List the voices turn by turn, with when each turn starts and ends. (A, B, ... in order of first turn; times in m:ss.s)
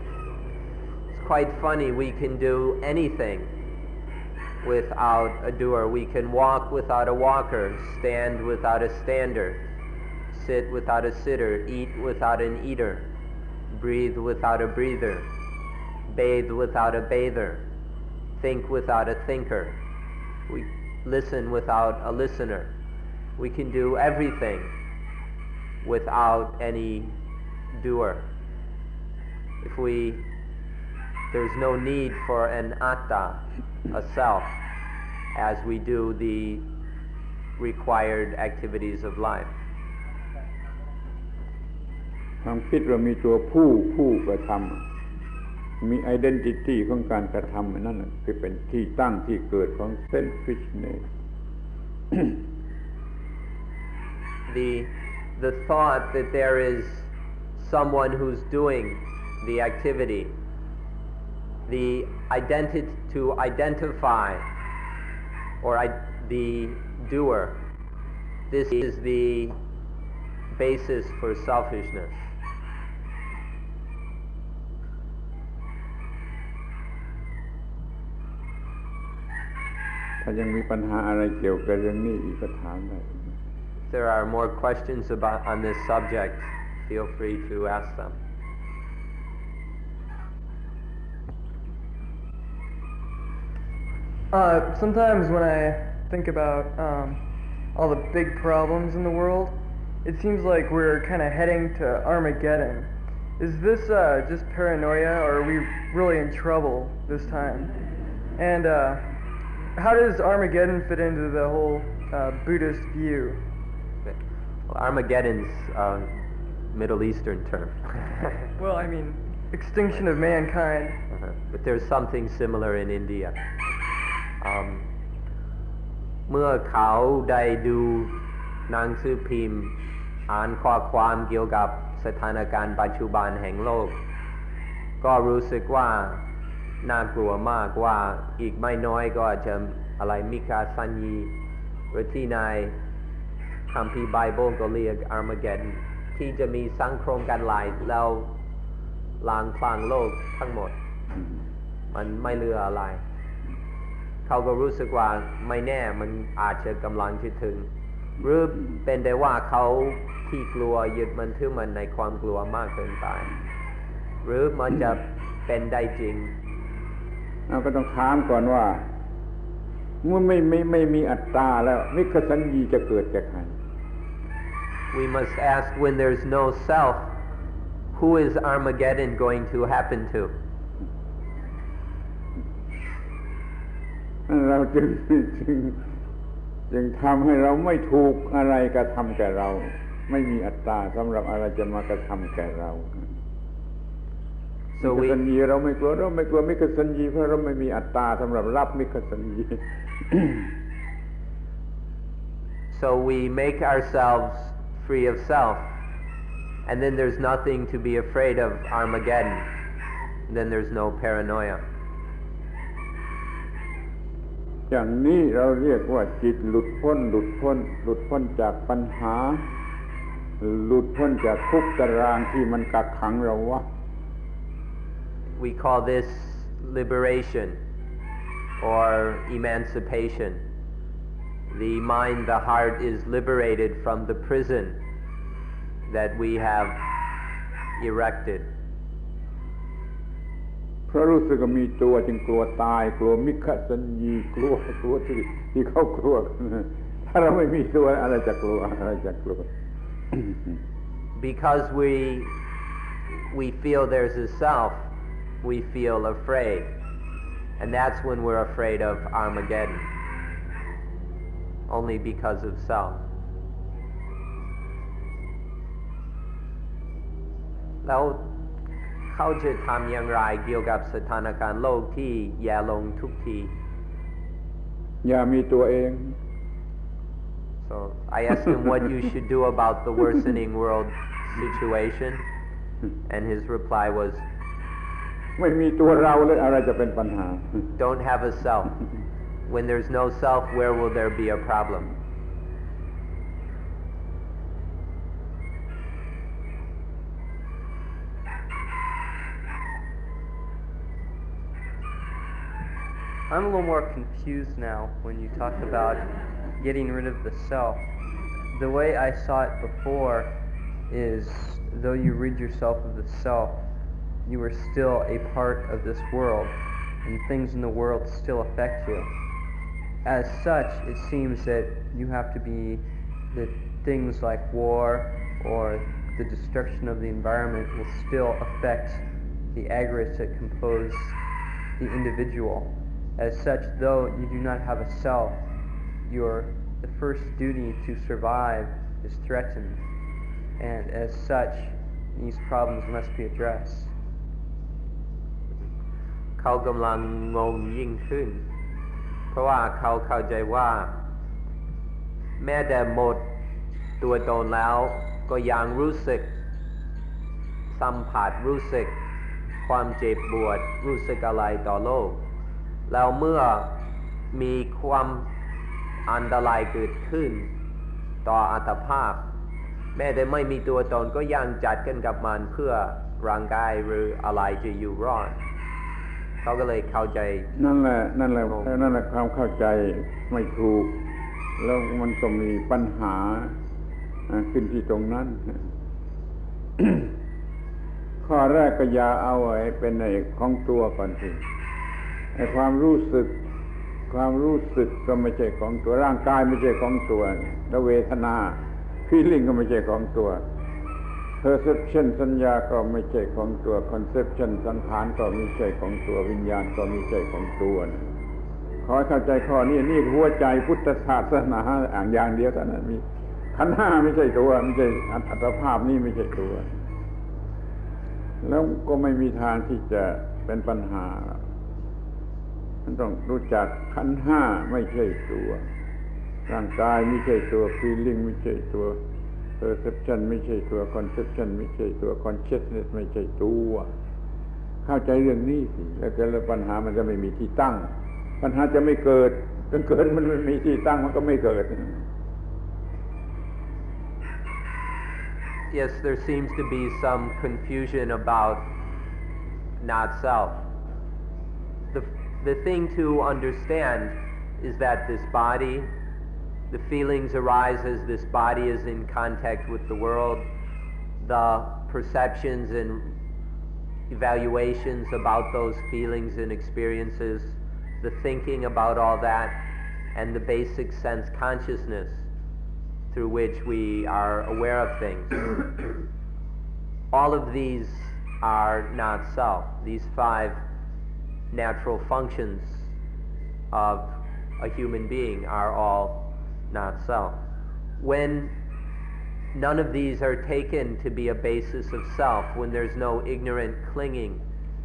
0:01.1-0:03.5 A
0:04.6-0:09.6 A
0:10.3-0:13.1 A
0:13.7-0:15.3 A
0:16.1-0:17.6 A
0:18.4-0:19.8 A
0:20.5-0:22.7 A
0:23.4-0:24.7 A
0:25.8-0:27.2 A
0:27.7-0:28.3 A
0:29.6-0:30.2 A
0:31.3-0:34.6 A
0:35.3-0:36.6 A
0:37.6-0:39.5 A
0:42.4-0:44.8 B
0:45.8-0:51.1 B
0:52.1-0:52.4 B
0:54.5-1:00.4 A
1:01.7-1:04.4 A
1:05.6-1:07.6 A
1:08.5-1:09.6 A
1:10.5-1:12.3 A
1:20.2-1:23.2 B
1:23.9-1:28.2 A
1:34.3-1:49.2 C
1:49.8-1:53.5 C
1:54.0-1:56.2 A
1:56.7-1:58.4 A
1:58.6-2:01.0 C
2:01.1-2:03.4 A
2:04.4-2:04.9 A
2:06.3-2:09.8 A
2:10.3-2:14.0 A
2:15.0-2:16.2 A
2:16.8-2:21.3 A
2:21.9-2:22.8 A
2:23.7-2:28.4 A
2:29.2-2:30.8 A
2:31.9-2:33.0 A
2:34.3-2:43.3 A
2:44.2-2:46.4 A
2:47.5-2:48.9 B
2:50.0-2:53.6 B
2:54.9-2:57.2 A
2:57.9-3:00.4 A
3:04.3-3:05.8 B
3:06.7-3:13.1 B
3:14.8-3:15.2 A
3:14.8-3:20.5 B
3:22.7-3:25.7 A
3:26.7-3:29.5 A
3:30.3-3:31.6 A
3:34.7-3:39.5 B
3:40.4-3:43.7 B
3:45.4-3:47.6 A
3:48.6-3:50.4 A
3:51.5-3:54.8 A
3:55.9-3:56.9 A
3:57.8-3:58.5 A
4:00.9-4:09.5 B
4:10.1-4:10.5 B
4:11.2-4:12.4 A
4:13.3-4:14.9 A
4:15.4-4:16.7 A
4:17.6-4:19.9 A
4:21.7-4:23.0 A
4:27.8-4:28.3 A
4:29.1-4:33.5 A
4:35.0-4:36.2 B
4:37.6-4:42.2 A
4:43.1-4:44.2 A
4:45.4-4:47.6 B
4:47.8-4:48.8 A
4:49.5-4:51.9 A
5:03.3-5:07.9 D
5:08.5-5:13.7 D
5:14.2-5:19.1 D
5:20.0-5:31.2 D
5:31.8-5:35.5 D
5:36.1-5:39.8 D
5:40.6-5:44.0 D
5:46.4-5:48.4 A
5:49.3-5:51.0 A
5:52.4-5:53.4 A
5:54.0-5:56.3 A
5:57.7-5:59.0 A
5:59.6-6:02.2 A
6:02.9-6:05.3 A
6:06.1-6:07.5 A
6:08.2-6:09.3 A
6:10.0-6:15.4 A
6:16.4-6:17.5 A
6:17.6-6:21.0 B
6:21.6-6:23.5 B
6:24.3-6:25.6 B
6:26.8-6:27.1 B
6:28.2-6:31.4 B
6:32.4-6:33.4 B
6:34.1-6:40.4 B
6:41.4-6:48.1 B
6:48.8-6:56.7 B
6:58.4-7:01.4 B
7:02.8-7:05.6 B
7:06.5-7:09.0 B
7:09.6-7:13.9 B
7:14.8-7:22.0 B
7:25.7-7:28.7 A
7:29.8-7:30.7 A
7:31.9-7:35.9 A
7:36.7-7:40.5 A
7:41.2-7:43.2 A
7:44.1-7:52.3 A
7:53.1-7:55.5 A
7:57.1-8:00.6 A
8:01.5-8:02.9 A
8:03.7-8:07.4 A
8:08.0-8:08.5 A
8:09.5-8:14.4 A